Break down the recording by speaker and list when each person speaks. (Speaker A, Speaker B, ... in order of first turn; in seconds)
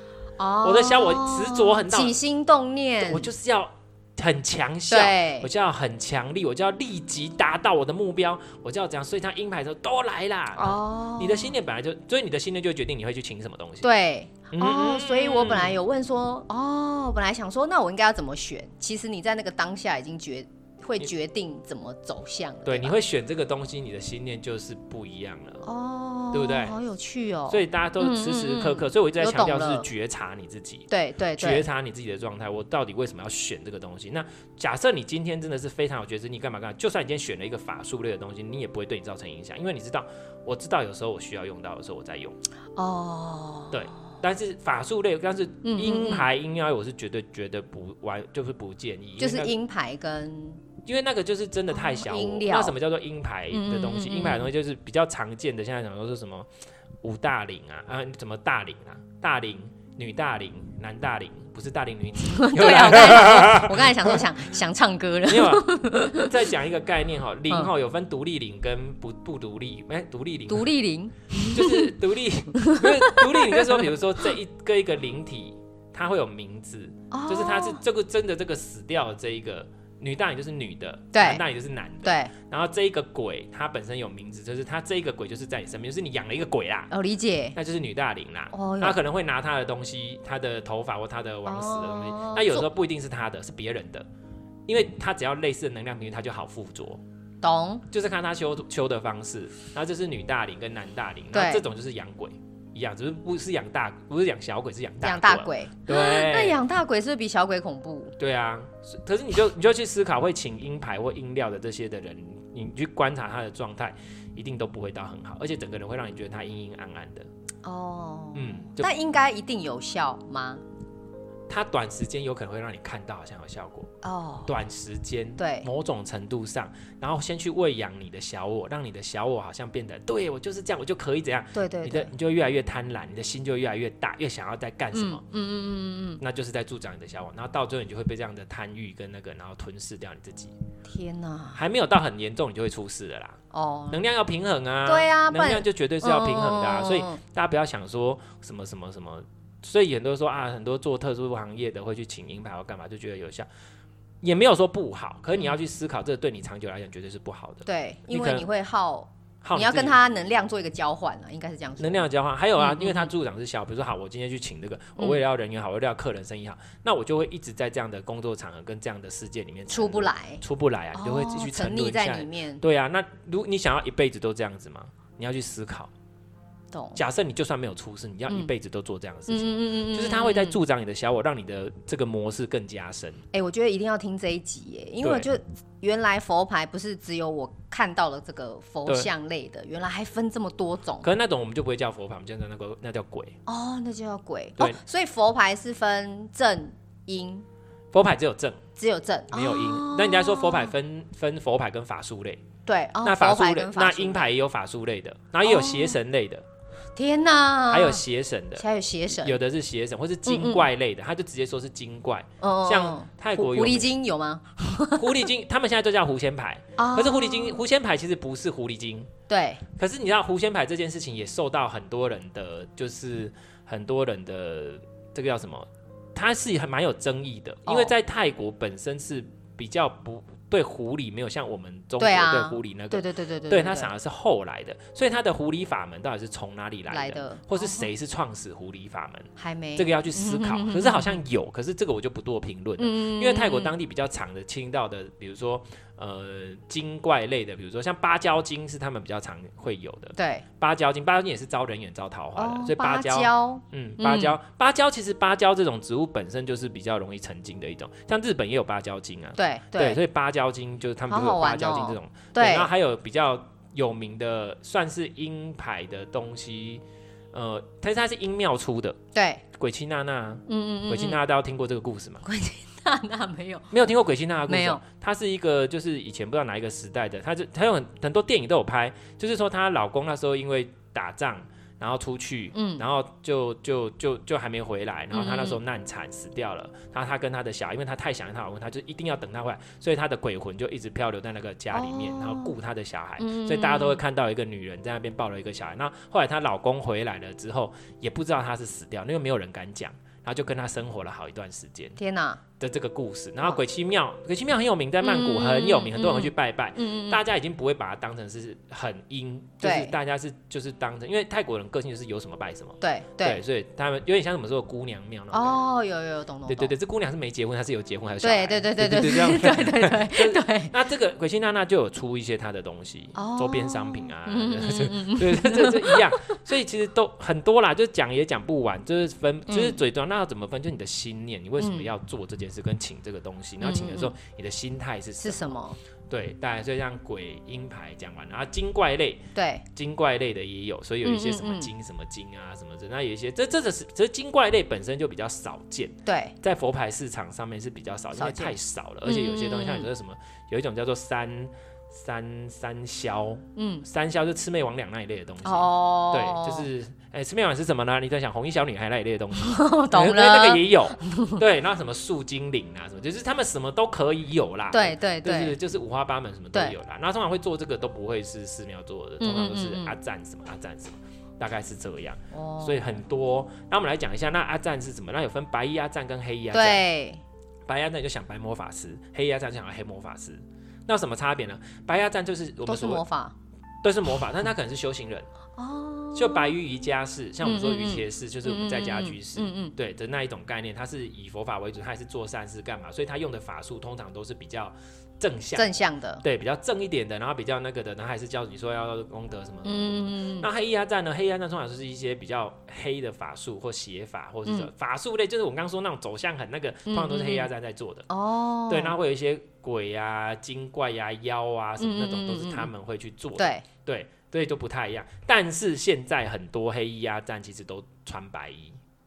Speaker A: 0.4-3.3, 4.9-5.5, 10.6-11.5, 13.8-23.0, 25.6-29.9, 30.9-31.7, 42.8-43.8, 45.6-46.3, 49.2-50.6, 51.7-52.8, 53.5-54.5, 62.2-66.4, 70.5-71.9, 72.6-73.9, 77.1-77.8, 81.1-81.4, 82.0-82.3, 86.9-87.6, 88.5-89.0, 91.5-92.7, 97.4-97.8, 101.3-101.6, 105.0-108.2, 117.6-120.6, 124.0-124.5, 125.4-125.7, 131.5-132.1, 134.9-136.2, 140.9-141.6, 143.5-144.0, 144.9-147.2, 157.7-162.1, 162.6-163.1, 169.7-170.4, 170.9-172.6, 176.7-177.0, 179.3-180.6, 183.3-191.1, 193.5-197.5, 198.8-200.7, 202.7-204.3, 205.4-206.0, 207.0-208.0, 208.6-209.4, 210.3-210.7, 212.4-215.2, 216.8-217.6, 219.3-219.6, 227.7-227.9, 232.0-233.9, 236.9-237.9, 239.4-241.2, 242.8-243.8, 250.2-250.4, 252.4-254.4, 259.4-260.0, 261.1-262.7, 269.1-269.4, 270.5-271.2, 272.2-273.7, 274.5-274.8, 282.5-282.9, 285.1-285.6, 291.7-292.5, 293.2-294.0, 302.0-302.4, 305.0-307.2, 309.6-309.9, 312.8-313.4, 315.3-316.7, 318.2-320.7, 323.1-326.4, 329.5-329.8, 331.6-331.9, 333.6-334.1, 335.2-335.8, 339.4-339.6, 341.0-341.7, 346.1-346.3, 348.1-349.9, 353.6-353.9, 355.4-356.7, 359.4-361.4, 364.7-365.6, 369.2-369.9, 372.3-373.0, 376.5-377.2, 382.6-383.4, 385.6-386.6, 387.4-389.8, 395.6-396.2, 399.6-400.5, 406.9-407.5, 408.1-409.0, 411.8-412.7, 413.4-413.6
Speaker B: 0.6-2.2, 3.0-13.9, 14.5-15.8, 22.6-25.7, 26.3-26.8, 27.5-42.4, 43.7-49.5, 50.8-56.5, 57.0-64.3, 65.3-70.7, 71.4-86.9, 87.5-94.1, 94.7-97.0, 97.9-106.6, 108.2-117.3, 118.3-118.9, 121.5-123.9, 124.5-135.2, 136.2-140.6, 141.6-143.4, 143.9-153.5, 154.2-158.5, 159.4-160.0, 161.8-175.9, 176.9-183.2, 185.0-185.3, 191.0-193.4, 197.9-198.6, 199.3-202.4, 203.0-206.4, 207.7-213.9, 215.0-219.1, 219.8-269.0, 269.6-272.2, 273.7-302.0, 302.6-315.6, 316.5-335.6, 336.1-376.9, 377.7-383.0, 383.8-385.3, 386.1-395.7, 396.2-408.1, 408.7-418.8